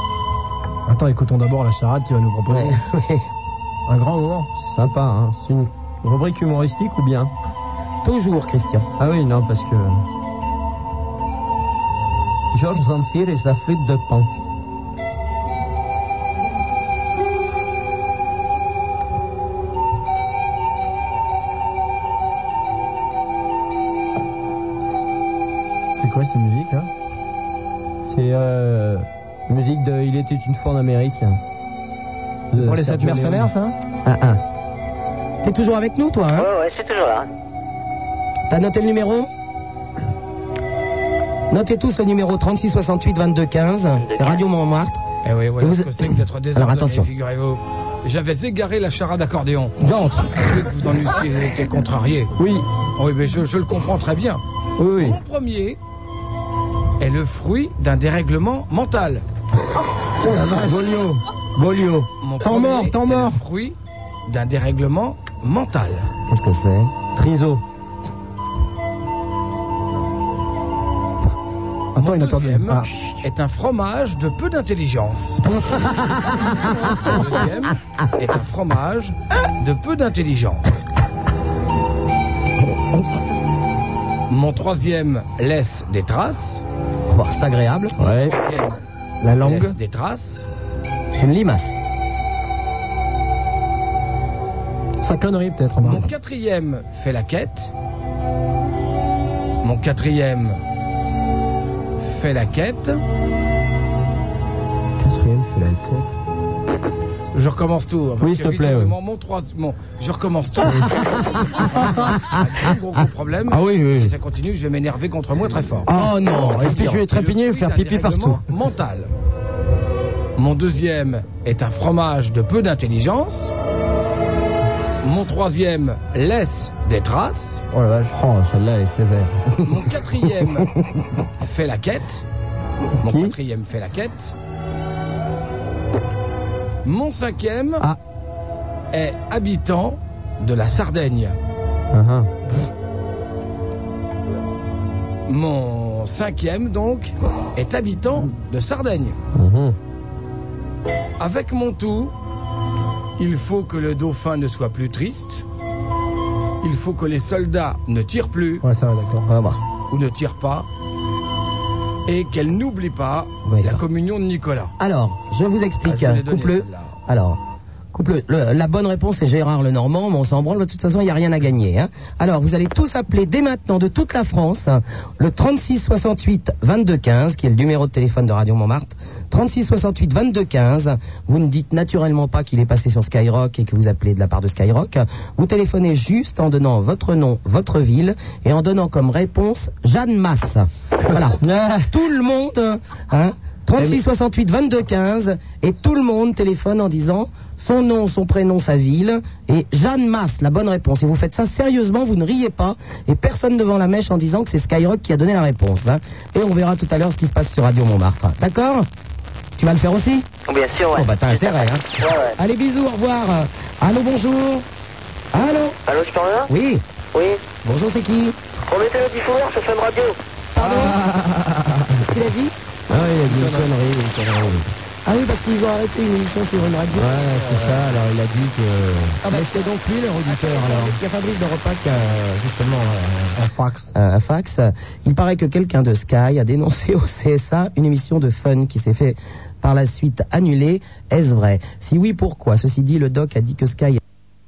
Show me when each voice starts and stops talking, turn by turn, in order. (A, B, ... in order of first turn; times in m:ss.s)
0:00.9-0:02.8 A
0:02.5-0:03.2 B
0:03.9-0:04.5 A
0:04.6-0:07.3 C
0:08.0-0:08.9 B
0:09.0-0:10.0 C
0:12.5-0:14.3 C
0:26.0-0:26.9 A
0:28.1-0:31.4 C
0:32.5-0:33.5 C
0:32.5-0:33.7 A
0:34.0-0:34.4 C
0:35.4-0:36.5 B
0:36.3-0:37.3 D
0:38.5-0:39.3 B
0:41.5-0:45.0 B
0:45.2-0:49.8 E
0:45.6-0:45.9 B
0:46.5-0:47.1 B
0:49.8-0:50.3 C
0:50.3-0:52.3 E
0:52.4-0:52.6 C
0:53.0-0:54.4 E
0:54.8-0:55.2 C
0:55.0-0:55.8 E
0:57.0-0:59.2 E
1:00.2-1:00.9 A
1:00.6-1:02.1 C
1:02.2-1:06.1 E
1:02.4-1:03.4 A
1:06.3-1:06.9 B
1:07.1-1:07.6 C
1:11.9-1:12.9 A
1:12.0-1:20.6 E
1:24.3-1:26.6 E
1:27.1-1:27.9 B
1:28.0-1:28.4 C
1:28.0-1:28.8 E
1:29.2-1:29.7 A
1:29.4-1:30.4 E
1:31.1-1:31.8 B
1:35.0-1:36.0 A
1:35.8-1:37.7 E
1:39.6-1:40.6 E
1:42.0-1:43.0 E
1:45.0-1:46.1 C
1:47.3-1:55.9 E
1:48.2-1:48.9 C
1:50.6-1:52.2 C
1:53.5-1:54.1 C
1:55.8-1:58.4 C
1:55.9-1:57.0 B
1:56.5-1:59.1 E
2:00.4-2:03.5 E
2:05.0-2:07.6 E
2:07.7-2:09.4 C
2:09.6-2:10.7 E
2:11.4-2:12.2 E
2:13.0-2:14.3 E
2:13.0-2:13.3 C
2:16.8-2:17.9 E
2:18.9-2:21.3 E
2:21.9-2:22.3 C
2:25.3-2:29.2 E
2:29.3-2:29.8 C
2:31.2-2:32.1 E
2:33.2-2:35.4 E
2:36.6-2:38.6 E
2:38.6-2:39.3 A
2:39.2-2:39.6 B
2:39.9-2:40.6 E
2:42.0-2:44.7 E
2:43.4-2:43.8 B
2:44.8-2:47.4 B
2:45.8-2:46.9 E
2:47.9-3:28.8 B
3:11.2-3:11.9 C
3:29.6-3:30.3 B
3:30.5-3:32.3 D
3:30.9-3:34.6 B
3:35.3-3:35.8 B
3:35.9-3:36.5 D
3:36.5-3:36.8 B
3:37.1-3:37.4 D
3:37.6-3:38.4 B
3:38.7-3:40.2 D
3:40.5-3:41.0 B
3:40.6-3:42.1 C
3:42.0-3:42.5 B
3:42.9-3:44.7 C
3:43.3-3:43.6 A
3:45.0-3:47.3 B
3:46.9-3:49.6 C
3:49.2-3:53.4 B
3:50.2-3:51.0 C
3:53.4-3:53.9 A
3:53.9-4:04.0 B